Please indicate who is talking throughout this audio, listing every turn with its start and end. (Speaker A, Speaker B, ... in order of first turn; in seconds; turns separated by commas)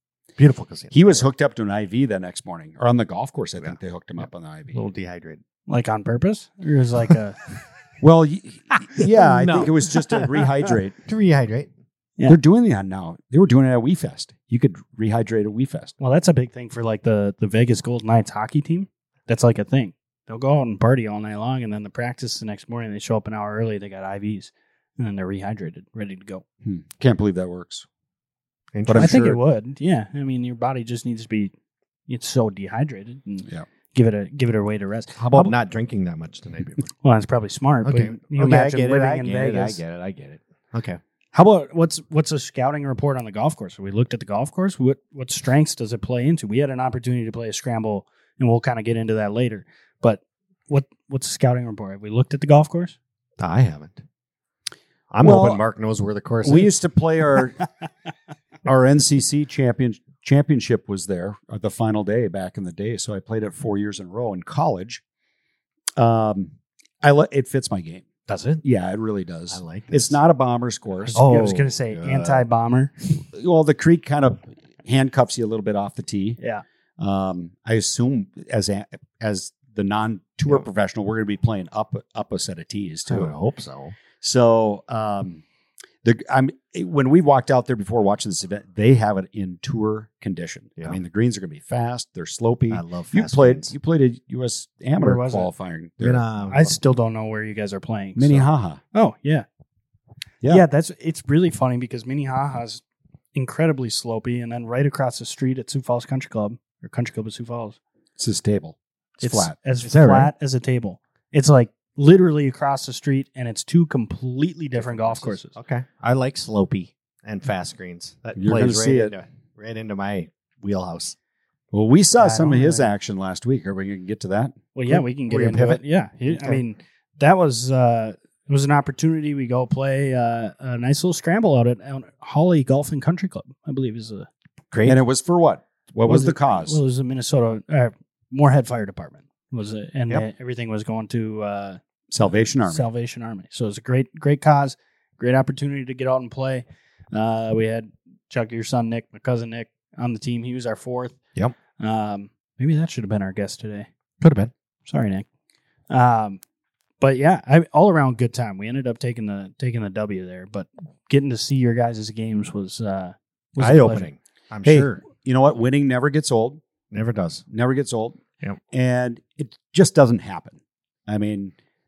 Speaker A: 0.4-1.2, Speaker B: 0.9-4.8, Speaker A: 3.6-5.4, Speaker C: 5.7-7.4, Speaker B: 8.0-11.0, Speaker A: 9.0-11.7, Speaker B: 12.3-15.9, Speaker C: 16.0-26.4, Speaker B: 26.6-27.9, Speaker A: 28.7-29.3, Speaker B: 28.9-29.4, Speaker C: 29.0-31.5, Speaker C: 32.1-35.5, Speaker B: 35.2-35.5, Speaker A: 35.3-36.9, Speaker C: 37.0-39.8, Speaker A: 37.8-41.0, Speaker C: 41.3-53.0, Speaker A: 53.4-54.0, Speaker A: 55.1-56.7, Speaker B: 55.2-55.6, Speaker B: 56.4-57.6, Speaker B: 58.6-65.0, Speaker B: 66.0-68.1, Speaker A: 68.3-68.6, Speaker B: 68.6-71.2, Speaker A: 69.5-70.2, Speaker C: 71.1-73.1, Speaker A: 71.1-72.5, Speaker B: 73.3-76.4, Speaker C: 76.4-76.6, Speaker B: 77.0-83.3, Speaker A: 83.1-84.0, Speaker B: 84.2-85.4, Speaker B: 86.0-96.2, Speaker A: 92.7-93.7, Speaker C: 95.0-95.5, Speaker A: 96.0-96.8, Speaker C: 96.5-99.5, Speaker B: 98.2-98.8, Speaker C: 100.5-102.8, Speaker C: 103.3-107.8, Speaker B: 108.2-109.5, Speaker C: 109.2-115.6, Speaker A: 109.8-110.3, Speaker A: 114.8-121.2, Speaker B: 118.4-119.1, Speaker B: 121.7-124.6, Speaker C: 122.2-122.9, Speaker C: 124.8-134.3, Speaker A: 124.9-126.6, Speaker A: 134.7-135.0, Speaker B: 134.8-136.8, Speaker C: 136.0-141.8, Speaker B: 142.1-142.9, Speaker C: 142.7-151.2, Speaker C: 151.8-153.9, Speaker A: 154.2-154.5, Speaker C: 154.9-155.3, Speaker C: 155.9-156.4, Speaker C: 157.0-164.1, Speaker A: 163.6-165.0, Speaker B: 164.6-166.6, Speaker A: 166.9-167.4, Speaker B: 167.5-171.5